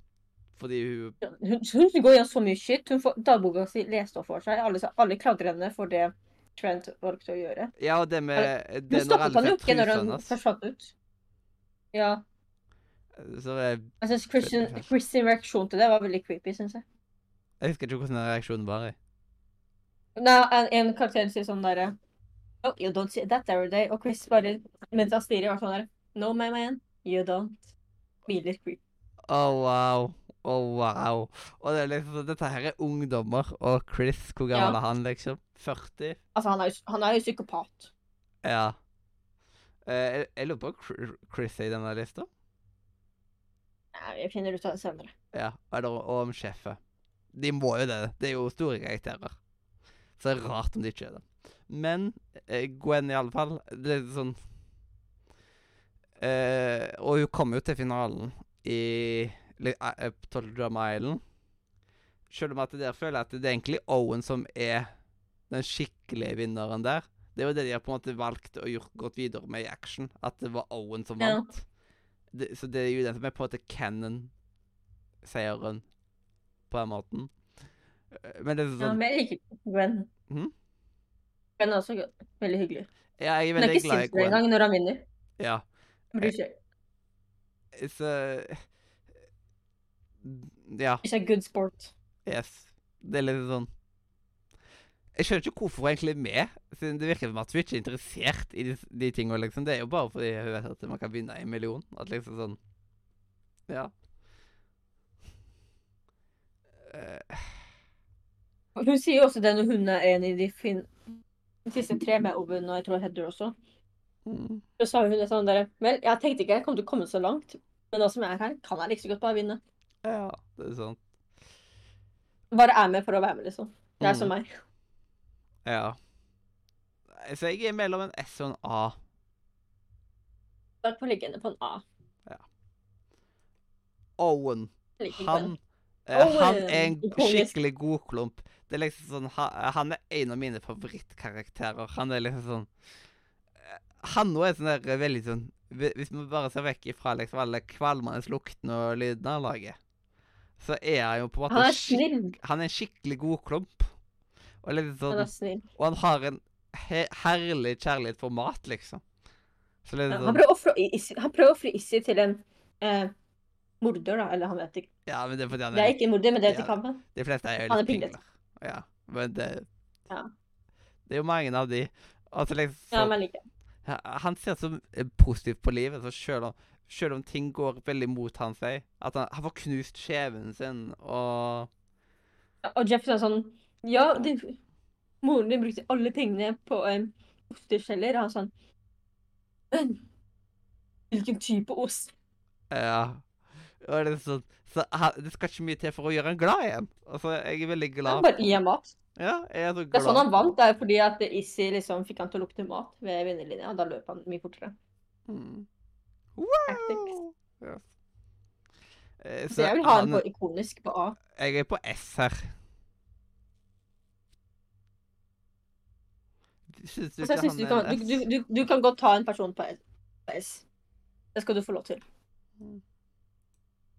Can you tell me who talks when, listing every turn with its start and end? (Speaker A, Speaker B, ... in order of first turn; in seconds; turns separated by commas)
Speaker A: 0.6-1.1, Speaker B: 1.2-7.7, Speaker A: 7.8-10.4, Speaker B: 8.3-10.9, Speaker B: 11.9-12.2, Speaker A: 13.2-14.9, Speaker B: 14.0-16.8, Speaker A: 17.6-18.9, Speaker B: 20.1-21.9, Speaker B: 22.6-27.6, Speaker B: 28.3-28.8, Speaker A: 29.3-36.2, Speaker B: 36.3-37.9, Speaker A: 38.4-38.7, Speaker A: 39.9-42.3, Speaker B: 43.9-45.1, Speaker A: 45.3-46.8, Speaker A: 47.3-49.3, Speaker A: 50.2-54.4, Speaker A: 56.2-61.2, Speaker A: 62.3-64.9, Speaker A: 65.5-71.7, Speaker B: 71.2-71.5, Speaker A: 72.3-74.3, Speaker A: 75.2-75.8, Speaker A: 76.7-77.3, Speaker A: 78.1-79.0, Speaker B: 78.8-80.1, Speaker B: 81.6-82.9, Speaker A: 83.2-84.4, Speaker B: 83.6-85.0, Speaker A: 85.4-85.6, Speaker B: 86.1-86.5, Speaker A: 87.7-88.6, Speaker A: 90.2-91.0, Speaker B: 91.0-91.9, Speaker A: 92.2-93.7, Speaker A: 95.1-102.6, Speaker A: 106.8-107.5, Speaker B: 108.8-110.9, Speaker B: 111.7-113.5, Speaker A: 114.2-114.6, Speaker B: 114.8-119.6, Speaker A: 120.0-121.0, Speaker B: 122.5-124.5, Speaker A: 124.0-124.3, Speaker A: 125.6-126.0, Speaker A: 127.1-128.9, Speaker B: 130.8-131.8, Speaker A: 134.2-142.7, Speaker B: 135.0-135.5, Speaker B: 136.1-137.5, Speaker A: 143.6-149.8, Speaker A: 150.6-153.9, Speaker B: 151.5-152.3, Speaker A: 154.6-159.0, Speaker B: 155.1-155.6, Speaker A: 159.8-160.4, Speaker B: 160.1-163.1, Speaker B: 163.8-164.9, Speaker A: 165.1-169.7, Speaker B: 165.7-167.0, Speaker B: 167.7-168.2, Speaker A: 171.1-173.1, Speaker B: 172.9-173.4, Speaker A: 173.8-181.7, Speaker B: 182.6-184.6, Speaker B: 185.2-188.5, Speaker B: 189.7-190.0, Speaker B: 191.1-192.1, Speaker A: 192.7-193.2, Speaker A: 193.8-198.5, Speaker B: 198.1-198.9, Speaker A: 199.2-200.5, Speaker B: 199.9-204.7, Speaker A: 205.3-205.7, Speaker A: 206.3-207.8, Speaker B: 206.7-207.1, Speaker A: 209.2-210.2, Speaker B: 209.5-211.2, Speaker A: 211.3-212.5, Speaker A: 216.7-218.2, Speaker B: 217.2-220.6, Speaker B: 221.3-222.0